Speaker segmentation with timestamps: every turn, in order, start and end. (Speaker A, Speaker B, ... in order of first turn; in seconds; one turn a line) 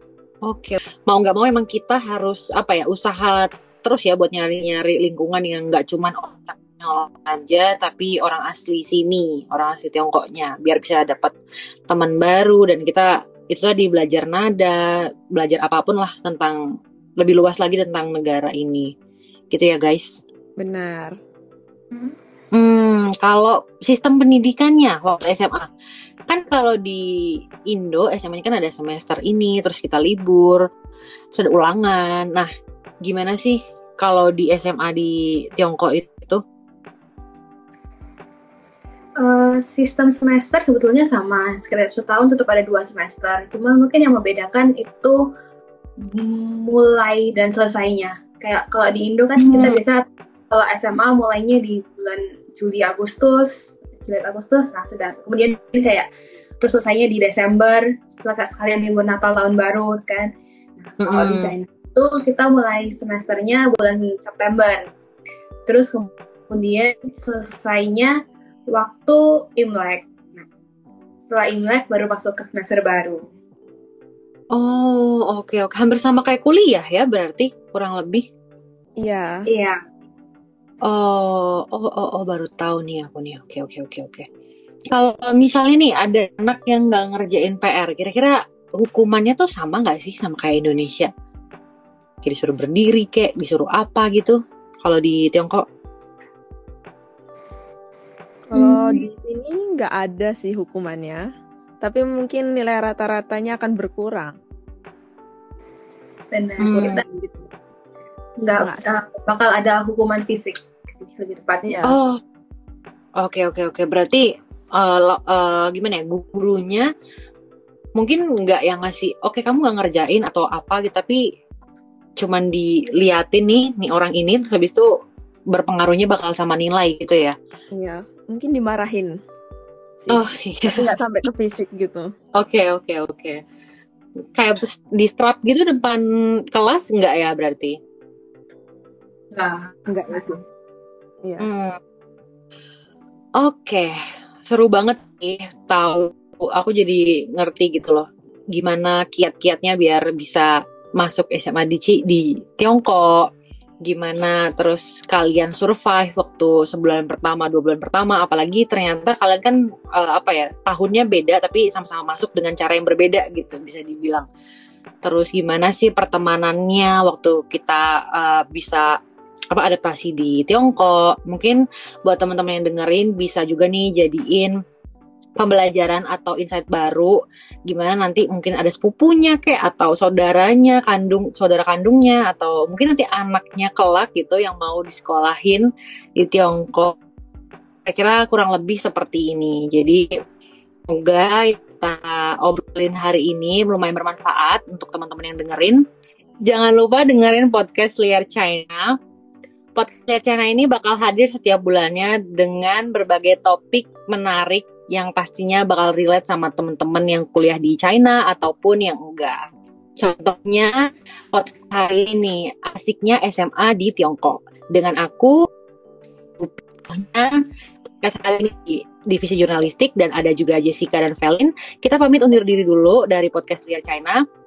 Speaker A: 0.5-11.3
Speaker A: 11.9-14.8
Speaker A: 15.3-16.6
Speaker A: 17.2-18.9
Speaker A: 19.5-20.2
Speaker B: 20.6-21.1
Speaker A: 22.5-25.7
Speaker A: 26.3-27.1
Speaker A: 27.7-30.6
Speaker A: 31.3-32.5
Speaker A: 33.0-36.4
Speaker C: 39.2-45.3
Speaker C: 46.0-56.1
Speaker A: 49.4-49.8
Speaker C: 56.6-60.3
Speaker C: 60.9-64.9
Speaker A: 61.0-61.5
Speaker C: 65.7-68.2
Speaker C: 68.7-70.5
Speaker C: 71.3-73.2
Speaker A: 74.5-78.3
Speaker B: 79.0-79.4
Speaker C: 79.5-79.8
Speaker A: 80.8-84.3
Speaker A: 84.9-91.1
Speaker A: 92.2-95.6
Speaker B: 98.5-101.2
Speaker C: 98.5-99.0
Speaker B: 101.8-104.3
Speaker C: 106.3-107.0
Speaker A: 106.6-107.0
Speaker B: 107.1-107.5
Speaker C: 108.4-111.8
Speaker B: 111.6-112.0
Speaker A: 111.9-112.2
Speaker A: 113.2-114.2
Speaker A: 114.7-116.9
Speaker A: 118.0-121.2
Speaker A: 122.2-124.9
Speaker A: 125.5-127.3
Speaker B: 127.7-129.1
Speaker B: 130.0-132.1
Speaker A: 130.1-131.0
Speaker A: 132.4-133.4
Speaker A: 134.3-137.8
Speaker C: 139.3-140.4
Speaker B: 139.9-140.4
Speaker B: 141.2-141.5
Speaker A: 141.4-141.8
Speaker A: 143.4-143.9
Speaker A: 144.4-153.3
Speaker A: 153.8-164.3
Speaker A: 165.0-168.9
Speaker A: 169.5-174.5
Speaker A: 175.4-177.2
Speaker A: 177.7-185.7
Speaker A: 186.2-186.9
Speaker A: 187.9-190.1
Speaker A: 190.9-195.8
Speaker A: 196.5-198.9
Speaker A: 199.8-209.4
Speaker A: 210.0-210.7
Speaker A: 211.3-215.4
Speaker A: 216.4-217.4
Speaker A: 218.0-224.2